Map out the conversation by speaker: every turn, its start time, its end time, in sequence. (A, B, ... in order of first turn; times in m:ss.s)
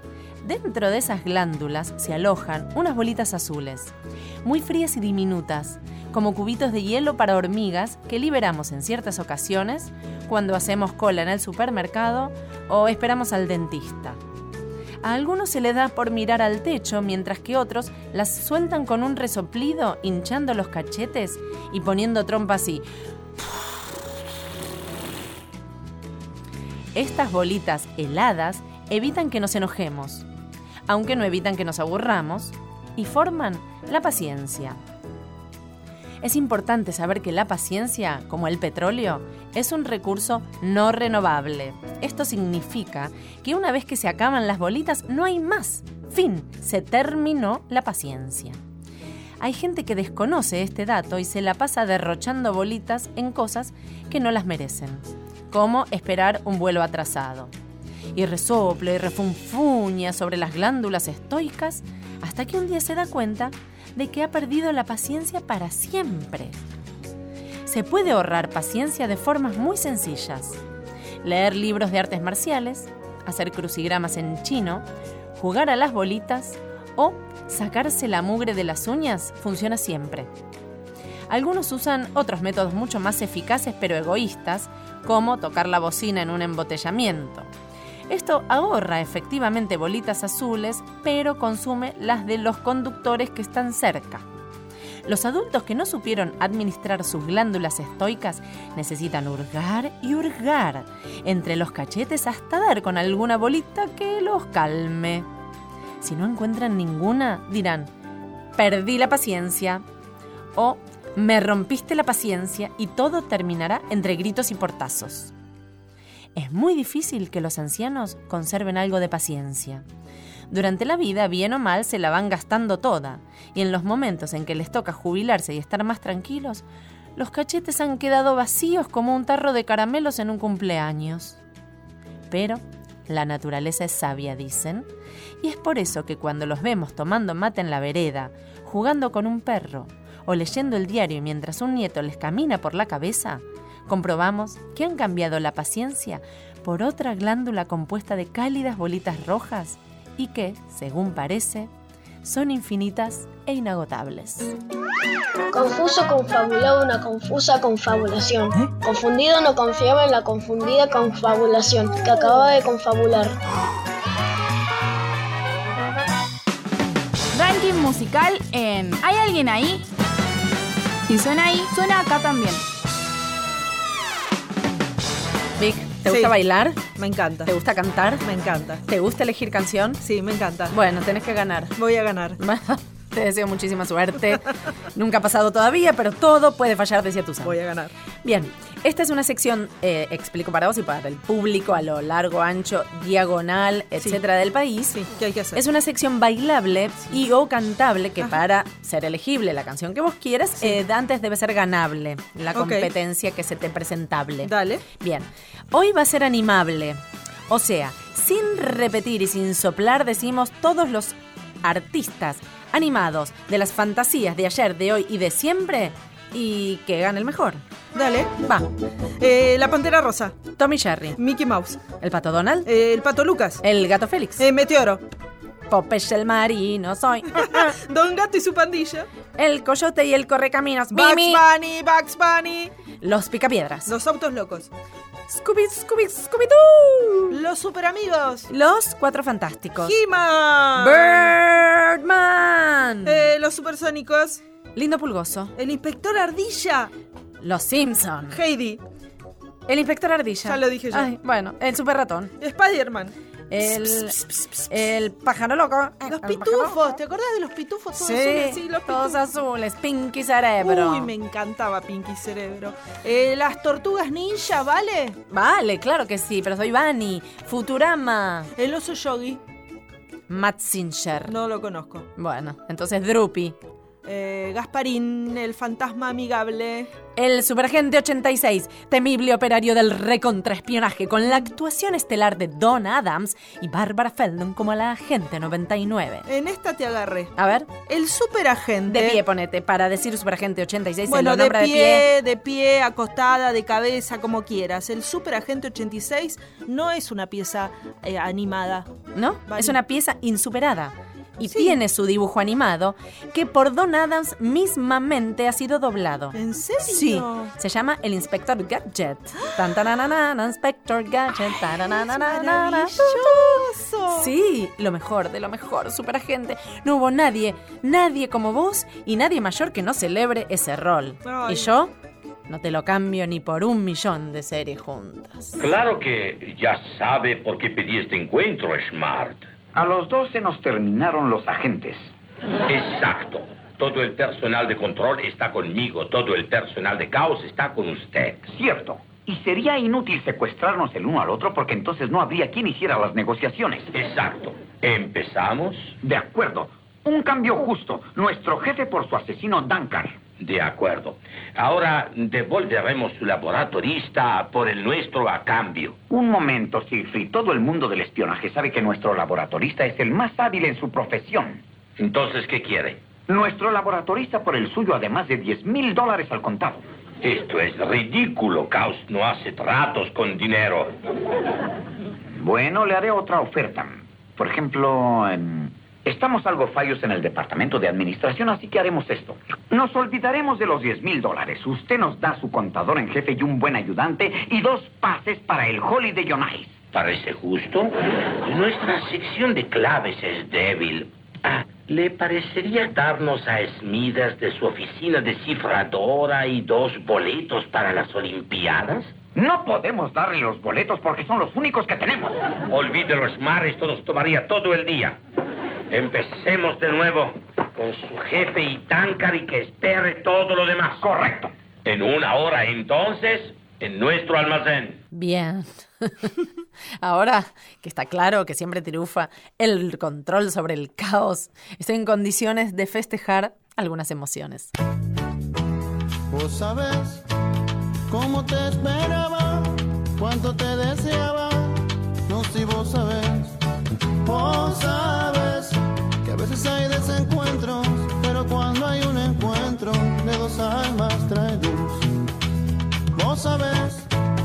0:00.4-0:14.2 A
0:15.0-0:22.8 A
0:23.4-0:23.9 A
0:26.9-0:30.2 A
0:30.9-0:34.8 A
0:36.2-0:48.6 A
0:49.4-0:57.5 A
0:58.1-1:06.6 A
1:07.6-1:10.6 A
1:11.2-1:20.3 A
1:21.3-1:27.5 A
1:28.1-1:34.2 A
1:35.0-1:45.3 A
1:46.0-1:47.9 A
1:48.6-1:49.8 A
1:50.5-1:55.3 A
1:56.3-1:59.8 A
2:00.5-2:06.6 A
2:07.2-2:11.4 A
2:12.3-2:14.9 A
2:15.4-2:31.7 A
2:32.2-2:34.5 A
2:35.5-2:43.4 B
2:47.3-2:49.8 C
2:51.1-2:52.6 C
2:55.6-2:56.8 A
2:56.0-2:56.4 D
2:56.9-2:57.5 D
2:57.4-2:58.2 A
2:58.2-2:58.8 D
2:58.9-3:00.0 A
3:00.0-3:00.7 D
3:00.7-3:01.8 A
3:01.8-3:02.4 D
3:02.4-3:07.6 A
3:07.4-3:07.9 D
3:08.2-3:15.0 A
3:14.9-3:15.6 D
3:15.5-3:37.6 A
3:22.5-3:22.9 D
3:24.4-3:24.8 D
3:37.9-3:38.3 D
3:38.4-3:38.7 A
3:39.2-3:40.4 D
3:40.5-3:41.2 A
3:41.2-3:41.8 D
3:42.0-3:42.7 A
3:42.6-3:43.6 D
3:43.6-3:44.4 A
3:44.4-3:45.0 D
3:45.7-3:47.7 A
3:47.4-3:49.1 D
3:49.4-3:51.4 A
3:50.9-3:52.7 D
3:53.0-3:53.9 A
3:53.8-3:54.7 D
3:55.3-3:57.4 A
3:57.3-3:58.5 D
3:58.5-3:59.9 A
3:59.8-4:01.3 D
4:00.8-4:03.2 A
4:03.0-4:04.4 D
4:04.7-4:05.5 A
4:05.5-4:06.9 D
4:07.4-4:08.4 A
4:08.3-4:08.8 D
4:09.7-4:12.3 A
4:10.4-4:11.1 D
4:12.4-4:13.1 D
4:13.5-4:16.8 A
4:16.0-4:19.2 D
4:17.9-4:21.1 A
4:20.6-4:25.2 D
4:25.3-4:28.5 A
4:28.6-4:29.4 D
4:30.3-4:31.3 A
4:31.3-4:32.1 D
4:32.2-4:33.6 A
4:34.0-4:36.9 D
4:37.2-4:46.2 A
4:46.2-4:49.2 D
4:47.4-4:47.7 A
4:48.9-4:52.1 A
4:51.1-4:58.9 D
4:59.1-5:21.9 A
4:59.5-4:59.8 D
5:01.4-5:01.8 D
5:06.3-5:07.5 D
5:12.0-5:14.3 D
5:21.2-5:21.7 D
5:22.5-5:25.6 A
5:25.6-5:29.4 E
5:29.7-5:32.0 F
5:32.6-5:38.5 E
5:38.5-5:43.9 F
5:43.9-5:45.9 E
5:46.0-5:50.2 F
5:50.4-5:56.0 E
5:56.1-6:01.6 F
6:02.0-6:03.0 E
6:03.3-6:06.8 F
6:07.2-6:10.9 E
6:12.4-6:26.8 F
6:26.9-6:39.1 E
6:39.3-6:42.4 F
6:42.7-6:45.2 E
6:45.9-6:51.0 E
6:51.0-6:51.5 F
6:51.8-6:55.0 E
6:55.1-6:56.3 A
6:57.0-7:04.7 A
7:06.3-7:07.2 G
7:08.1-7:13.6 G
7:14.2-7:22.1 G
7:23.1-7:24.1 G